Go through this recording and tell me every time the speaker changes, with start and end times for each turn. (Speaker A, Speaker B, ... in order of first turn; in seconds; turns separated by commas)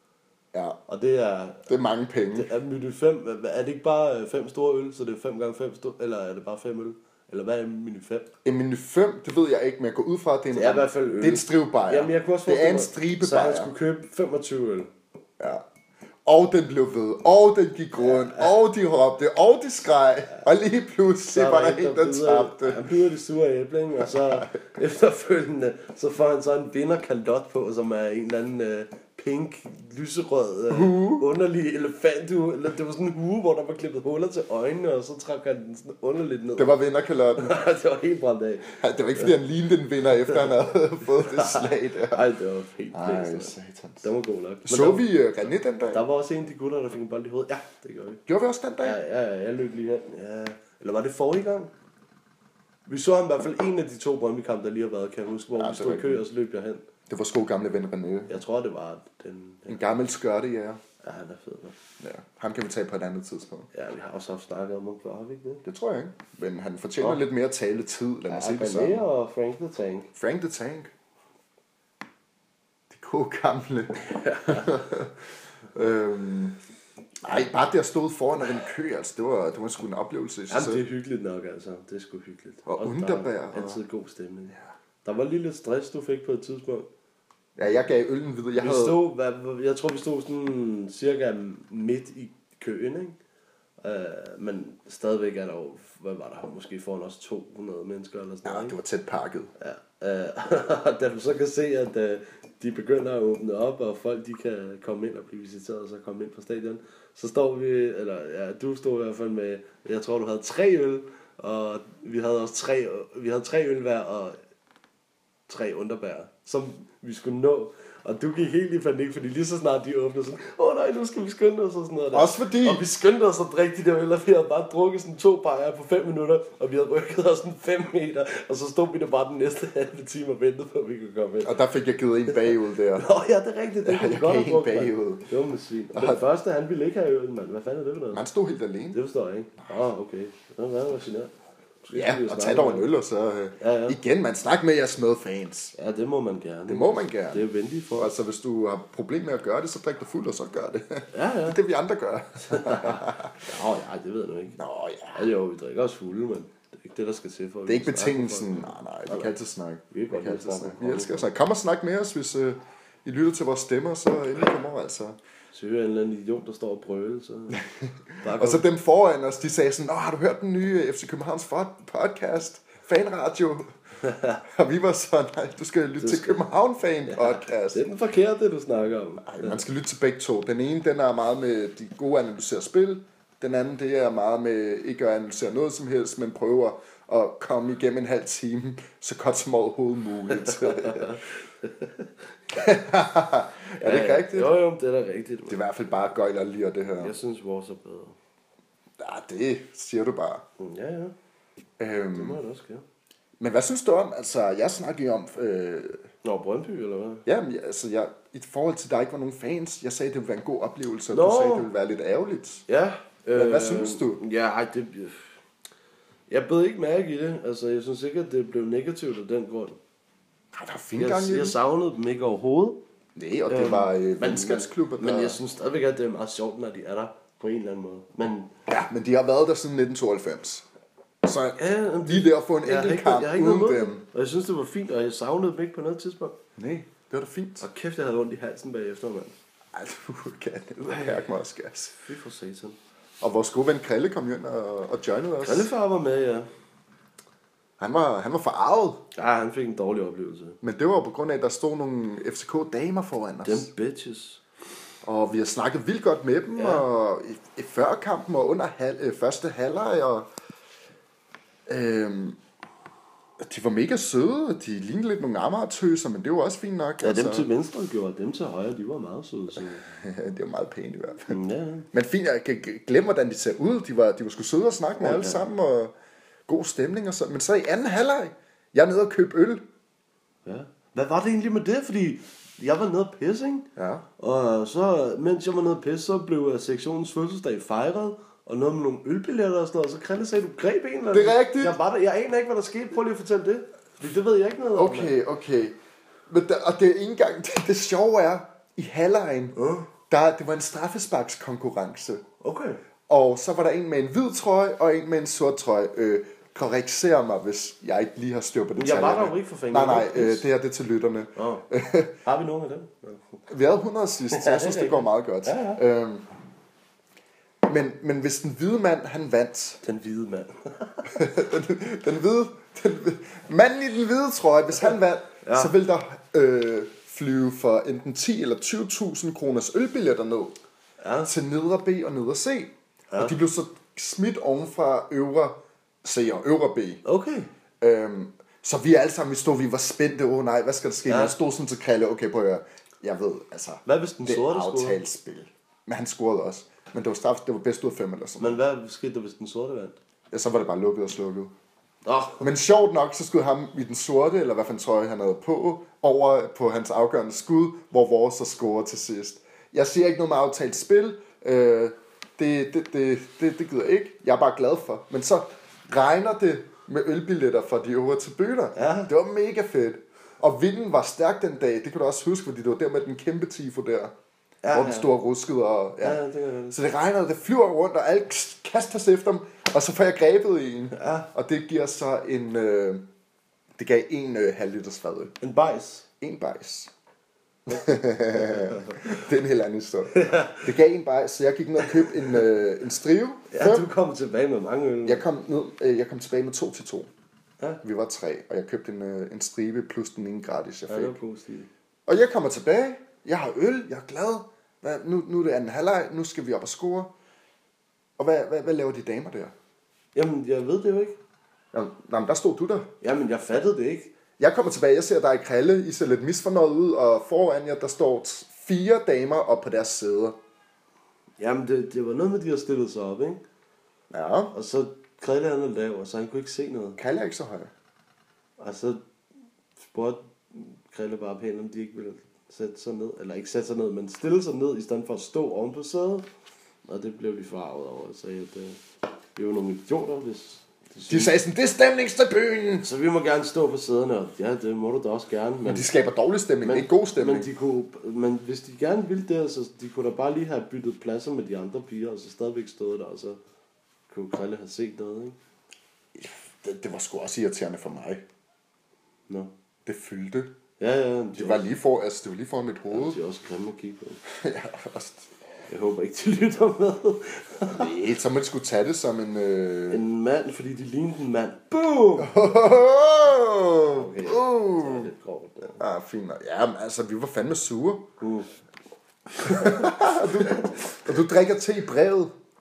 Speaker A: 0.5-0.8, Speaker B: 0.9-1.7, Speaker A: 1.7-2.5, Speaker B: 2.3-8.3, Speaker A: 8.4-13.7, Speaker B: 10.5-14.9, Speaker A: 15.4-15.6, Speaker A: 16.2-22.9, Speaker B: 18.0-18.5, Speaker B: 21.3-36.8, Speaker A: 24.0-24.6, Speaker A: 30.7-31.3, Speaker A: 36.6-37.5, Speaker B: 37.4-39.3, Speaker A: 38.8-42.2, Speaker B: 41.1-45.1, Speaker A: 42.9-44.0, Speaker A: 44.6-46.0, Speaker B: 45.9-48.2, Speaker A: 48.3-49.0, Speaker B: 48.8-51.7, Speaker B: 52.9-56.8, Speaker A: 55.5-56.2, Speaker A: 57.1-58.4, Speaker B: 58.3-59.8, Speaker A: 59.7-60.8, Speaker B: 61.0-61.7, Speaker A: 62.0-63.7, Speaker B: 63.7-65.6, Speaker A: 65.6-69.1, Speaker B: 68.3-70.1, Speaker A: 70.1-70.9, Speaker A: 72.9-76.6, Speaker B: 74.0-74.9, Speaker A: 77.2-80.8, Speaker B: 80.5-86.9, Speaker A: 82.7-83.8, Speaker A: 87.6-89.0, Speaker B: 88.5-93.2, Speaker B: 93.8-98.8, Speaker A: 98.4-99.5, Speaker B: 99.6-114.4, Speaker B: 115.5-131.5, Speaker A: 122.1-122.8, Speaker A: 131.4-133.1, Speaker B: 132.9-138.2, Speaker A: 133.8-135.3, Speaker A: 135.9-136.2, Speaker A: 138.1-139.0, Speaker B: 138.9-142.9, Speaker A: 141.9-145.7, Speaker B: 143.6-144.0, Speaker B: 145.7-148.1, Speaker A: 146.7-153.5, Speaker B: 151.1-151.6, Speaker B: 152.5-154.6, Speaker A: 154.6-155.3, Speaker B: 155.1-159.3, Speaker A: 157.7-165.2, Speaker B: 159.9-161.3, Speaker B: 165.5-167.6, Speaker A: 167.6-173.7, Speaker B: 168.2-168.6, Speaker B: 174.0-174.4, Speaker A: 174.4-177.8, Speaker B: 176.0-176.4, Speaker B: 177.1-179.6, Speaker A: 179.2-191.2, Speaker B: 190.3-192.1, Speaker A: 192.5-194.5, Speaker B: 193.8-195.6, Speaker A: 195.5-197.1, Speaker B: 197.0-198.2, Speaker A: 199.0-200.4, Speaker B: 200.6-201.1, Speaker A: 201.8-202.4, Speaker B: 202.1-202.8, Speaker A: 203.4-206.0, Speaker B: 206.2-207.2, Speaker A: 207.2-212.6, Speaker B: 211.1-211.7, Speaker B: 212.7-215.3, Speaker A: 213.3-214.2, Speaker B: 216.3-219.8, Speaker A: 220.5-221.6, Speaker B: 221.0-222.8, Speaker A: 223.2-225.4, Speaker B: 223.5-228.5, Speaker A: 228.7-230.7, Speaker A: 231.2-234.0, Speaker B: 231.6-236.4, Speaker A: 236.6-237.7, Speaker B: 237.6-239.3, Speaker A: 239.7-241.9, Speaker B: 240.9-241.3, Speaker B: 242.0-242.8, Speaker A: 243.2-245.7, Speaker B: 245.4-246.5, Speaker A: 247.8-249.0, Speaker B: 249.1-250.6, Speaker A: 250.6-253.7, Speaker B: 253.4-254.4, Speaker A: 255.0-260.3, Speaker B: 256.5-256.8, Speaker A: 261.7-262.4, Speaker A: 263.4-267.5, Speaker B: 267.0-269.8, Speaker A: 269.8-271.4, Speaker B: 271.3-271.9, Speaker A: 271.9-275.9, Speaker B: 275.0-275.5, Speaker A: 276.5-279.6, Speaker B: 280.4-283.7, Speaker A: 283.8-284.0, Speaker B: 284.2-295.1, Speaker A: 291.1-291.8, Speaker A: 294.8-295.8, Speaker A: 296.3-299.6, Speaker B: 299.5-299.9, Speaker A: 300.1-302.2, Speaker B: 302.4-302.8, Speaker A: 303.1-312.1, Speaker B: 308.8-310.5, Speaker B: 311.4-311.6, Speaker B: 312.2-313.4, Speaker A: 313.5-316.2, Speaker B: 314.3-315.8, Speaker A: 317.6-319.8, Speaker B: 319.8-321.2, Speaker A: 321.1-330.6, Speaker B: 325.4-325.7, Speaker B: 331.0-331.3, Speaker A: 331.2-337.0, Speaker B: 333.1-333.3, Speaker B: 337.0-337.5, Speaker A: 337.8-348.6, Speaker B: 341.1-341.4, Speaker B: 343.9-345.0, Speaker B: 348.4-350.0, Speaker A: 350.3-351.5, Speaker B: 352.0-352.5, Speaker A: 352.4-374.1, Speaker B: 368.8-369.1, Speaker B: 374.6-375.1, Speaker A: 374.7-383.1, Speaker B: 376.0-376.8, Speaker B: 380.9-381.3, Speaker A: 383.8-385.3, Speaker B: 385.4-386.1, Speaker A: 386.2-386.9, Speaker A: 387.7-393.9, Speaker B: 388.3-389.2, Speaker B: 390.1-390.7, Speaker B: 391.8-392.4, Speaker B: 393.5-395.2, Speaker A: 395.0-397.1, Speaker A: 397.8-401.2, Speaker B: 400.9-401.7, Speaker A: 402.1-407.1, Speaker A: 408.2-409.5, Speaker B: 410.1-411.2, Speaker A: 411.7-412.9, Speaker B: 413.0-414.1, Speaker A: 414.4-420.4, Speaker B: 421.4-423.4, Speaker A: 424.1-424.5, Speaker B: 424.5-427.0, Speaker A: 427.0-427.7, Speaker B: 428.6-429.0, Speaker B: 429.8-436.3, Speaker B: 436.9-438.8, Speaker B: 439.4-441.3, Speaker A: 441.1-442.9, Speaker B: 442.8-445.9, Speaker A: 445.6-447.5, Speaker B: 446.6-453.4, Speaker B: 454.1-455.4, Speaker A: 456.1-458.2, Speaker A: 459.9-460.5, Speaker B: 460.8-461.6, Speaker A: 461.4-463.2, Speaker B: 462.9-464.2, Speaker A: 464.3-465.3, Speaker B: 465.7-468.0, Speaker A: 467.6-470.0, Speaker B: 469.9-472.4, Speaker A: 472.2-475.1, Speaker B: 473.8-475.8, Speaker A: 475.8-478.1, Speaker B: 478.2-478.5, Speaker B: 479.4-480.6, Speaker A: 479.4-482.3